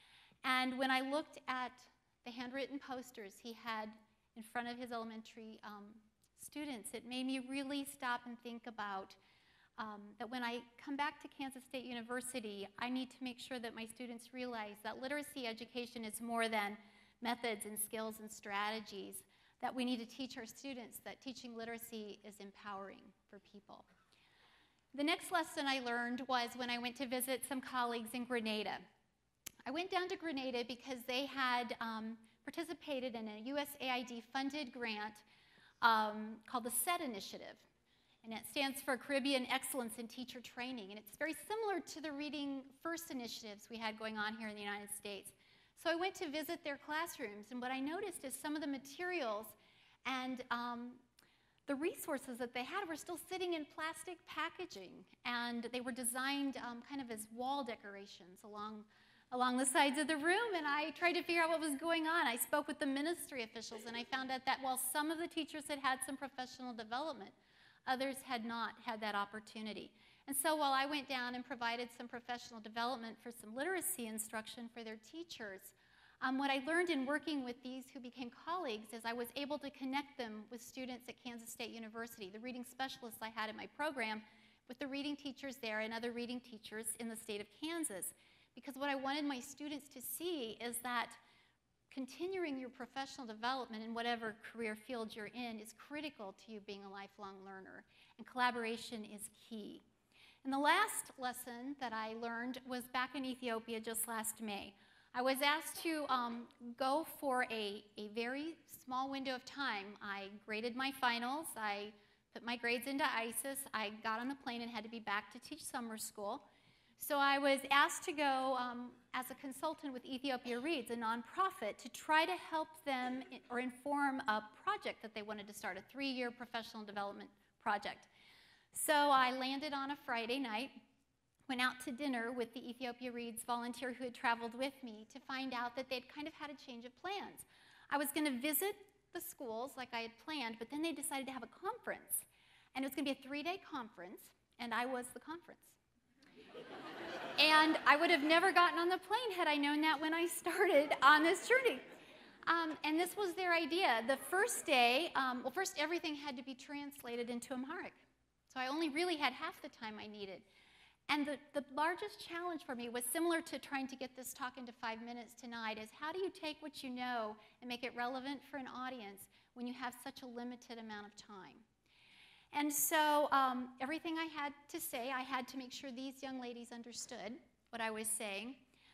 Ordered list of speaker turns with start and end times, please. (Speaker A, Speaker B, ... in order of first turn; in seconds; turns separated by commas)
Speaker A: 0.4-9.2, Speaker A: 9.8-23.9, Speaker A: 24.9-28.8, Speaker A: 29.7-35.2, Speaker A: 35.8-37.7, Speaker A: 38.2-51.0, Speaker A: 51.7-91.2, Speaker A: 91.9-99.8, Speaker A: 100.4-116.5, Speaker A: 117.0-128.1, Speaker A: 128.7-130.8, Speaker A: 131.5-145.8, Speaker A: 147.4-151.8, Speaker A: 152.5-158.0, Speaker A: 158.5-160.5, Speaker A: 161.1-171.7, Speaker A: 172.5-178.6